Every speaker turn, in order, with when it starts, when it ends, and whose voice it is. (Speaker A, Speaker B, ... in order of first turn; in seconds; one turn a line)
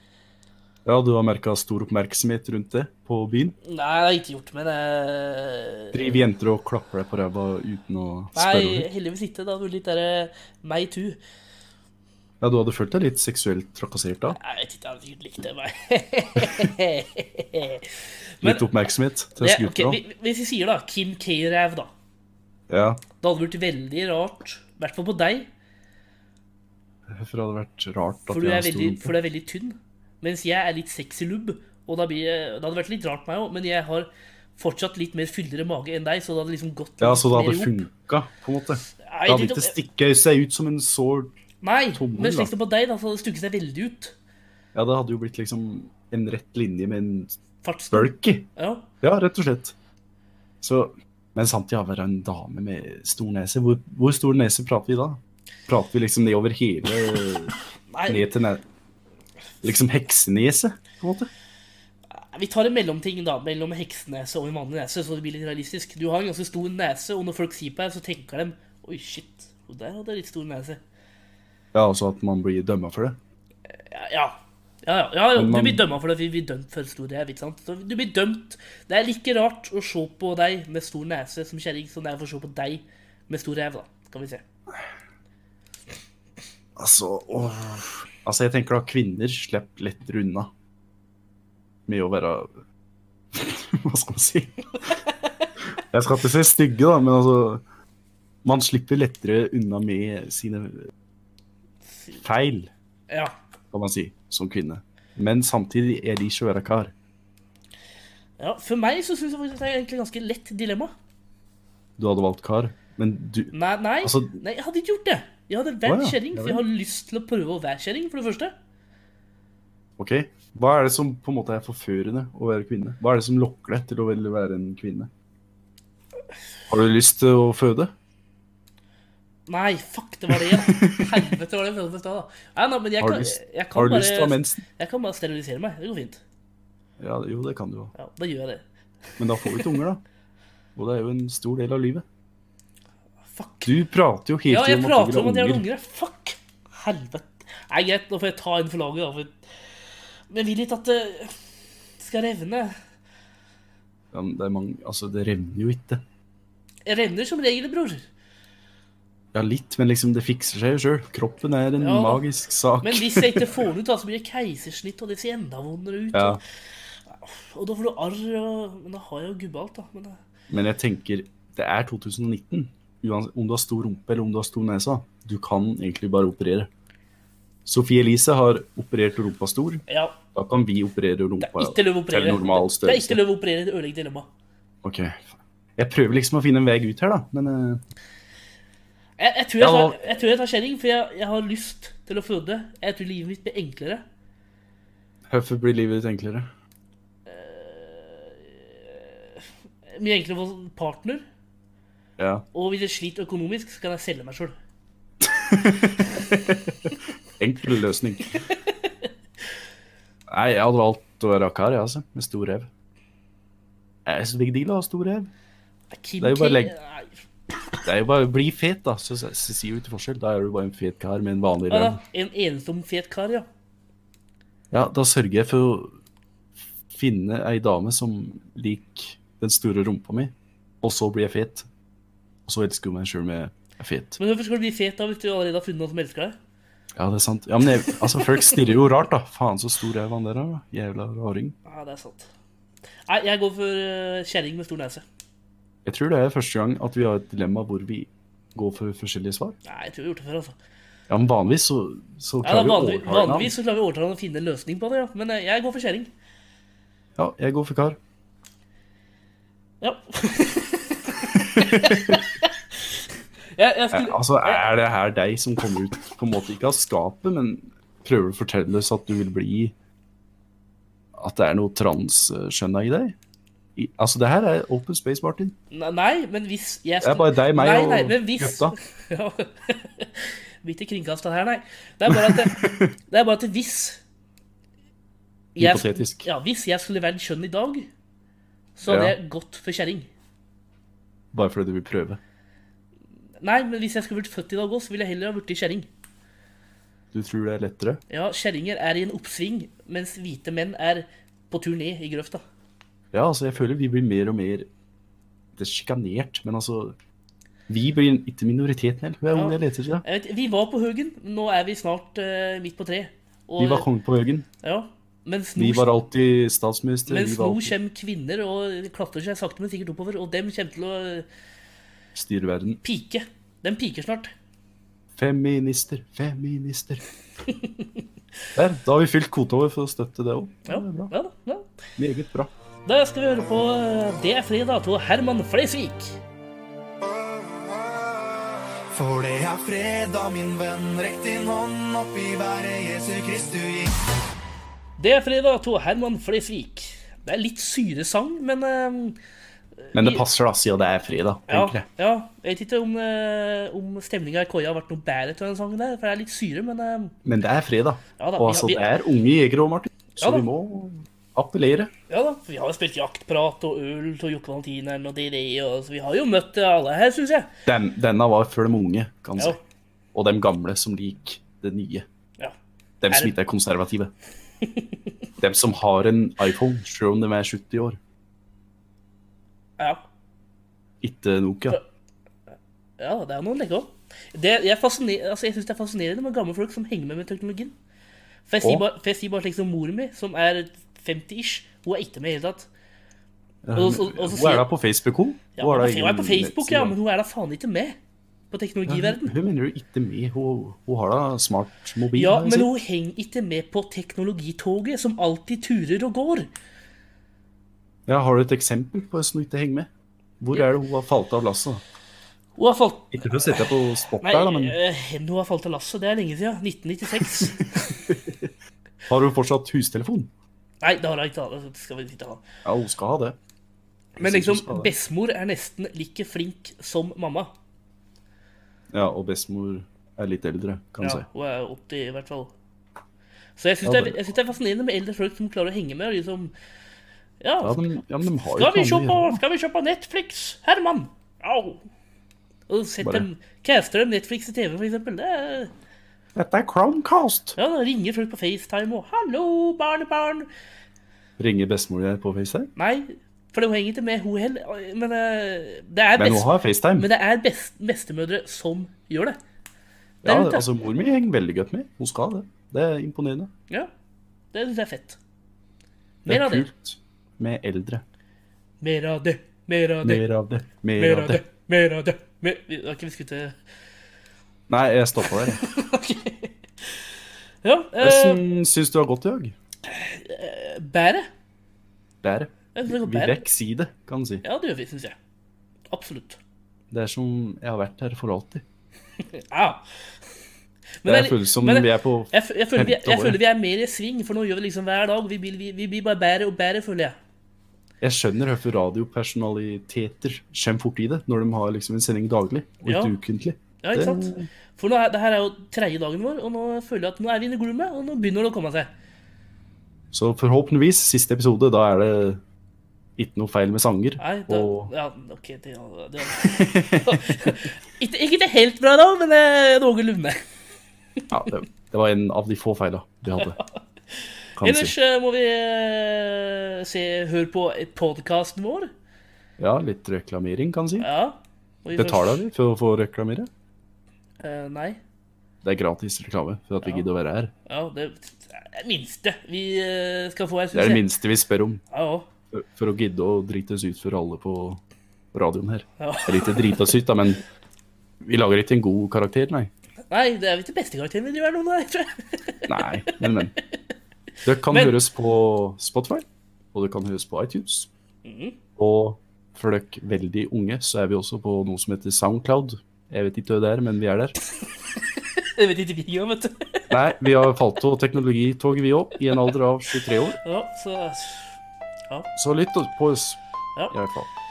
Speaker A: 0.8-3.5
Speaker B: 3.6-6.0
Speaker A: 5.9-8.9
Speaker B: 8.3-11.2
Speaker A: 12.4-14.4
Speaker B: 14.3-18.6
Speaker A: 16.4-16.6
Speaker A: 18.4-20.0
Speaker B: 19.4-21.9
Speaker A: 22.7-23.0
Speaker B: 23.2-25.5
Speaker A: 27.1-29.1
Speaker B: 28.3-37.8
Speaker A: 37.0-41.3
Speaker B: 39.0-39.7
Speaker B: 41.6-44.1
Speaker A: 41.9-42.5
Speaker A: 44.7-47.4
Speaker B: 47.6-48.9
Speaker A: 47.9-48.5
Speaker A: 49.0-49.7
Speaker A: 50.6-57.5
Speaker B: 57.9-58.3
Speaker A: 58.1-58.6
Speaker A: 59.6-61.3
Speaker B: 62.1-70.8
Speaker A: 71.7-73.2
Speaker B: 73.8-84.4
Speaker A: 75.3-75.8
Speaker A: 86.8-90.5
Speaker A: 91.9-92.5
Speaker A: 93.3-94.9
Speaker A: 95.8-97.6
Speaker A: 98.4-100.9
Speaker A: 102.2-102.7
Speaker B: 103.1-103.3
Speaker A: 103.7-106.9
Speaker B: 108.4-110.9
Speaker A: 112.0-114.3
Speaker B: 113.5-118.5
Speaker A: 115.8-116.6
Speaker A: 120.0-125.1
Speaker A: 126.7-127.9
Speaker B: 129.5-136.2
Speaker A: 130.3-131.1
Speaker A: 133.0-134.6
Speaker A: 137.0-137.9
Speaker B: 137.9-138.6
Speaker A: 139.2-140.0
Speaker B: 139.4-139.8
Speaker A: 140.8-142.0
Speaker B: 143.3-143.7
Speaker A: 143.6-145.6
Speaker B: 144.5-149.3
Speaker B: 150.3-151.4
Speaker B: 152.0-152.7
Speaker A: 154.1-156.0
Speaker B: 156.8-158.0
Speaker A: 159.3-163.6
Speaker B: 161.8-162.2
Speaker B: 162.8-166.4
Speaker A: 166.1-166.4
Speaker B: 167.1-170.2
Speaker A: 170.5-176.7
Speaker A: 177.7-179.8
Speaker B: 179.9-180.2
Speaker A: 180.3-183.2
Speaker B: 181.4-184.3
Speaker A: 184.8-187.8
Speaker B: 189.2-194.0
Speaker A: 189.6-190.0
Speaker A: 195.3-196.5
Speaker B: 197.3-201.2
Speaker A: 202.2-202.4
Speaker B: 202.5-204.5
Speaker A: 205.2-208.4
Speaker B: 208.8-209.1
Speaker A: 210.3-212.7
Speaker A: 214.1-215.3
Speaker B: 215.9-217.2
Speaker A: 216.2-216.7
Speaker A: 217.8-222.0
Speaker B: 221.7-223.4
Speaker A: 224.7-225.9
Speaker A: 226.9-231.7
Speaker A: 232.4-234.2
Speaker B: 234.2-236.4
Speaker A: 236.9-241.6
Speaker B: 241.7-242.3
Speaker B: 243.1-245.0
Speaker A: 245.8-249.6
Speaker B: 249.6-250.5
Speaker A: 251.1-253.5
Speaker B: 252.4-256.1
Speaker A: 257.1-258.0
Speaker B: 259.8-263.0
Speaker A: 261.4-262.2
Speaker B: 263.5-264.6
Speaker A: 263.9-269.7
Speaker A: 271.1-273.1
Speaker A: 273.8-275.5
Speaker B: 275.7-284.0
Speaker A: 277.0-278.7
Speaker A: 282.1-282.9
Speaker B: 285.5-287.9
Speaker A: 285.6-286.3
Speaker B: 288.8-290.1
Speaker A: 288.9-289.1
Speaker A: 291.3-292.2
Speaker B: 293.4-295.9
Speaker A: 297.1-298.0
Speaker B: 298.1-302.4
Speaker A: 303.1-304.7
Speaker A: 305.6-306.9
Speaker A: 307.7-310.0
Speaker B: 309.3-313.9
Speaker A: 313.6-314.5
Speaker B: 314.6-315.9
Speaker A: 315.6-317.7
Speaker B: 317.1-321.3
Speaker A: 322.1-322.8
Speaker B: 322.8-324.3
Speaker A: 325.2-327.0
Speaker B: 327.5-327.9
Speaker A: 328.5-331.1
Speaker B: 330.7-331.7
Speaker A: 332.0-332.5
Speaker B: 332.9-336.2
Speaker C: 338.9-343.9
Speaker B: 345.0-349.2
Speaker B: 349.9-350.2
Speaker A: 349.9-351.9
Speaker B: 351.5-357.1
Speaker A: 357.2-361.9
Speaker B: 358.2-358.9
Speaker B: 360.2-360.5
Speaker B: 362.1-367.5
Speaker A: 367.6-369.6
Speaker A: 370.1-372.1
Speaker A: 373.0-374.1
Speaker B: 373.1-373.3
Speaker B: 374.6-375.1
Speaker A: 375.4-378.0
Speaker B: 379.8-380.0
Speaker A: 381.0-381.8
Speaker B: 383.0-387.7
Speaker B: 388.5-392.7
Speaker A: 393.6-396.9
Speaker B: 393.7-394.7
Speaker B: 395.6-398.0
Speaker B: 398.5-399.3
Speaker A: 398.9-402.7
Speaker B: 402.1-406.5
Speaker A: 408.1-409.9
Speaker A: 410.4-411.8
Speaker B: 412.6-413.7
Speaker A: 413.1-414.8
Speaker B: 414.2-418.0
Speaker A: 417.1-418.5
Speaker A: 419.1-420.3
Speaker B: 420.8-422.4
Speaker A: 422.6-423.4
Speaker B: 424.1-427.5
Speaker A: 424.2-424.9
Speaker A: 428.9-431.2
Speaker B: 431.0-432.5
Speaker B: 433.6-436.5
Speaker A: 433.8-434.2
Speaker B: 437.4-437.9
Speaker A: 437.6-439.4
Speaker B: 438.5-441.8
Speaker B: 442.7-445.7
Speaker A: 443.0-443.3
Speaker A: 446.3-447.6
Speaker B: 447.6-450.5
Speaker A: 451.4-452.7
Speaker B: 452.8-459.4
Speaker A: 456.2-457.1
Speaker B: 460.2-460.6
Speaker A: 460.2-463.5
Speaker B: 464.5-465.2
Speaker B: 466.2-466.7
Speaker A: 466.2-468.0
Speaker B: 468.8-470.2
Speaker A: 470.0-471.4
Speaker B: 471.0-473.5
Speaker A: 474.7-475.6
Speaker B: 475.4-477.0
Speaker B: 477.6-478.4
Speaker A: 478.0-479.5
Speaker B: 479.9-481.3
Speaker A: 482.2-484.4
Speaker B: 482.7-483.4
Speaker B: 484.4-485.1
Speaker B: 485.9-486.4
Speaker A: 486.9-488.6
Speaker B: 489.3-489.8
Speaker B: 491.0-497.1
Speaker A: 491.0-493.4
Speaker A: 498.0-504.4
Speaker B: 502.8-503.1
Speaker B: 503.8-508.9
Speaker A: 510.1-512.4
Speaker A: 513.2-514.9
Speaker B: 514.2-520.4
Speaker A: 516.4-517.3
Speaker A: 521.3-523.6
Speaker B: 523.4-528.9
Speaker A: 524.6-524.9
Speaker A: 529.6-531.1
Speaker B: 531.0-532.4
Speaker A: 531.9-533.5
Speaker B: 534.4-535.0
Speaker A: 535.6-537.5
Speaker B: 537.7-541.1
Speaker A: 540.7-541.8
Speaker B: 541.9-542.3
Speaker A: 542.5-544.8
Speaker A: 545.3-547.4
Speaker B: 546.0-546.9
Speaker A: 548.2-549.7
Speaker B: 550.1-553.3
Speaker A: 552.6-553.5
Speaker A: 554.4-557.9
Speaker B: 554.7-555.0
Speaker B: 558.2-558.6
Speaker A: 558.8-564.3
Speaker B: 565.1-566.9
Speaker A: 566.9-570.4
Speaker B: 570.4-571.5
Speaker A: 572.4-573.4
Speaker A: 573.9-574.3